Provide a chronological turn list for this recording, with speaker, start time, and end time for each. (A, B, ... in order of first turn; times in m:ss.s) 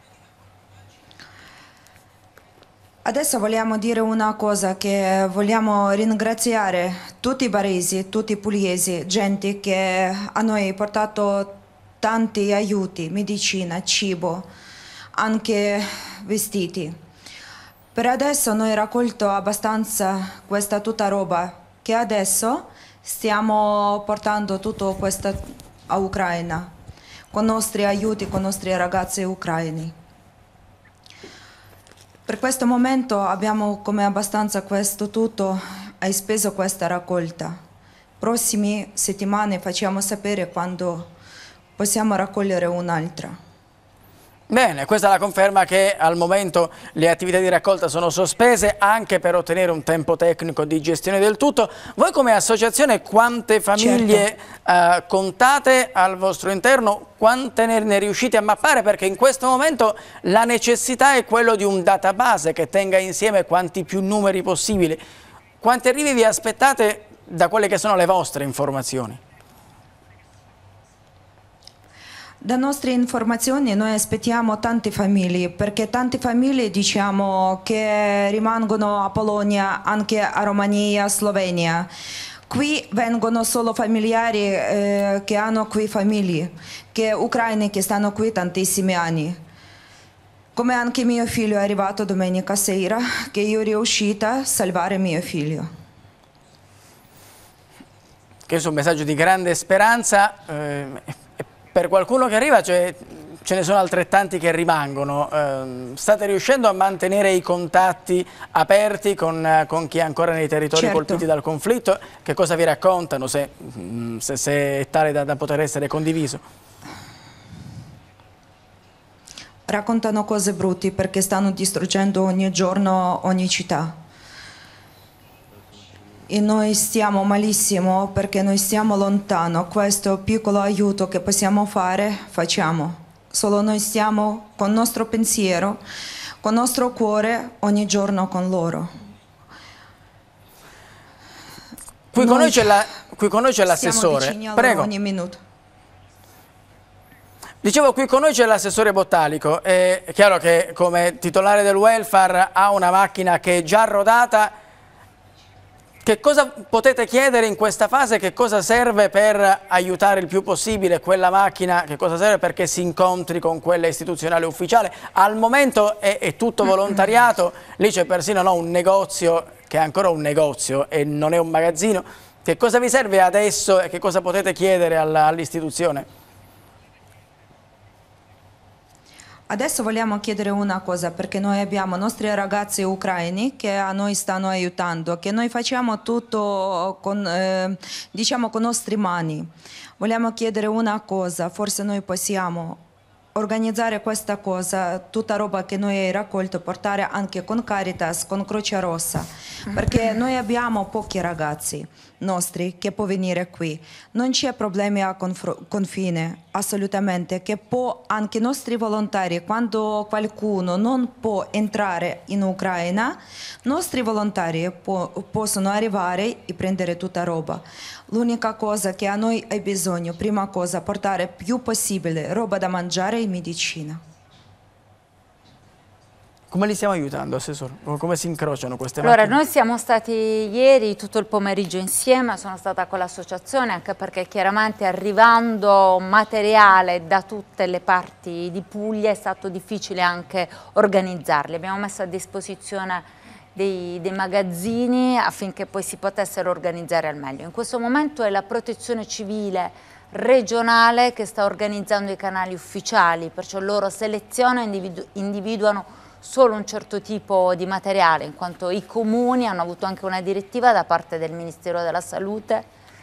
0:03.0-0:14.5 A
0:15.1-0:17.0 A
0:17.9-0:26.7 A
0:27.3-0:29.9 A
0:32.3-0:37.6 A
0:38.2-0:41.1 A
0:41.8-0:43.4 A
0:44.5-1:05.0 B
0:53.8-0:54.2 A
1:05.6-1:09.2 B
1:12.4-1:21.9 A
1:22.5-1:29.4 A
1:30.5-1:35.7 A
1:38.5-1:56.4 B
1:50.7-1:51.2 A
1:59.7-2:04.0 A
2:06.3-2:15.8 A
2:16.4-2:18.9 A
2:22.1-2:24.9 B
2:22.2-2:22.8 A
2:23.7-2:25.4 A
2:27.6-2:34.5 B
2:36.0-2:56.1 B
2:59.5-3:12.8 A
3:13.3-3:44.0 A
3:46.5-3:49.4 B
3:49.0-4:22.7 C